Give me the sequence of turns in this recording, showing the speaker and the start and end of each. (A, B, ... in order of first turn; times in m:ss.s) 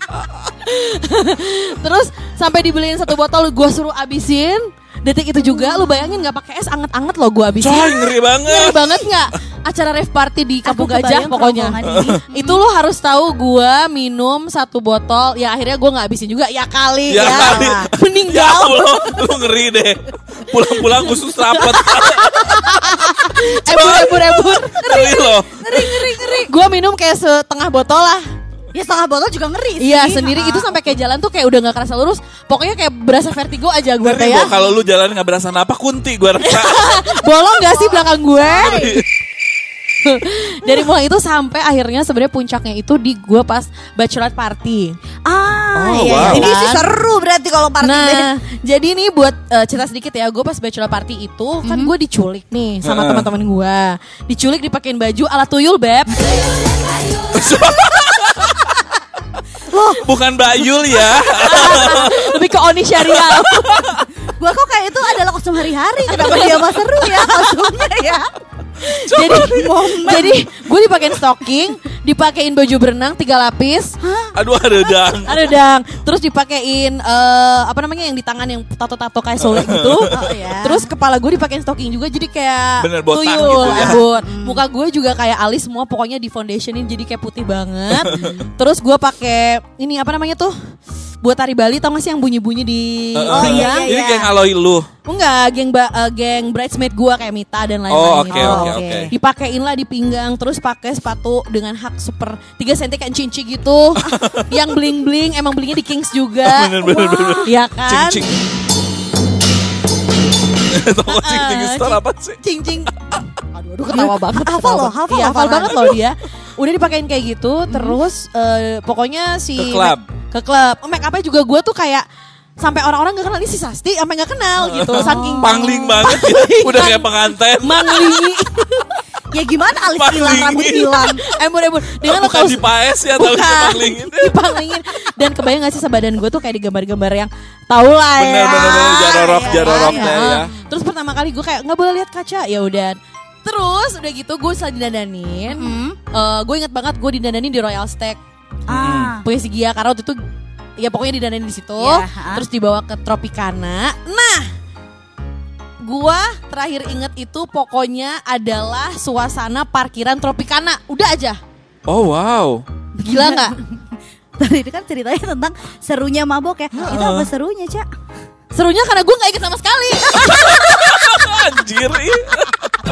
0:00.6-0:11.8 A
0:07.6-0:08.9 B
0:10.6-0:12.6 C
0:11.8-0:12.2 B
0:12.3-0:19.2 A
0:17.1-0:25.9 B
0:17.2-0:17.7 C
0:21.5-0:25.0 A
0:24.7-0:26.5 C
0:25.7-0:28.2 A
0:28.7-0:31.0 C
0:29.8-0:34.5 A
0:34.0-0:37.0 B
0:36.4-0:39.0 A
0:37.7-0:39.0 C
0:38.6-0:39.0 B
0:40.0-0:44.9 A
0:45.2-0:48.3 C
0:45.7-0:46.5 B
0:46.2-0:46.9 A
0:47.8-0:56.3 A
0:51.6-0:51.9 C
0:52.8-0:53.3 B
0:57.3-0:58.7 B
0:59.7-1:00.1 C
1:00.0-1:02.2 B
1:01.4-1:03.8 A
1:01.4-1:02.1 C
1:03.1-1:04.0 B
1:04.4-1:08.3 C
1:06.1-1:07.8 A
1:08.8-1:13.9 A
1:09.1-1:09.7 B
1:09.4-1:10.4 C
1:14.0-1:14.9 C
1:14.3-1:15.4 B
1:15.2-1:30.5 A
1:19.4-1:20.1 B
1:20.1-1:20.9 C
1:22.8-1:24.0 B
1:23.3-1:24.6 C
1:28.0-1:28.5 C
1:31.2-1:33.9 A
1:33.2-1:34.9 B
1:33.3-1:34.3 C
1:35.0-1:46.8 A
1:37.9-1:39.1 B
1:38.3-1:39.1 C
1:44.0-1:44.4 B
1:46.4-1:48.4 B
1:46.8-1:47.5 C
1:47.4-1:48.2 A
1:50.7-1:52.4 B
1:51.0-1:52.9 A
1:53.5-2:02.0 A
1:53.9-1:56.0 C
1:57.7-1:58.0 C
1:59.6-2:00.0 B
2:02.6-2:08.9 A
2:04.6-2:08.2 B
2:05.0-2:05.7 C
2:09.3-2:11.2 C
2:09.9-2:11.2 B
2:11.2-2:12.6 A
2:12.0-2:14.4 B
2:13.1-2:28.2 A
2:18.2-2:20.5 B
2:18.4-2:20.3 C
2:25.5-2:26.0 C
2:28.7-2:29.1 B
2:28.7-2:29.2 C
2:29.2-2:30.2 A
2:30.8-2:34.5 A
2:31.8-2:32.4 C
2:35.8-2:41.4 A
2:41.9-2:42.6 B
2:43.0-2:43.6 C
2:43.0-2:43.6 A
2:44.4-2:47.8 C
2:46.8-2:47.3 B
2:48.5-2:51.0 A
2:50.2-2:52.7 B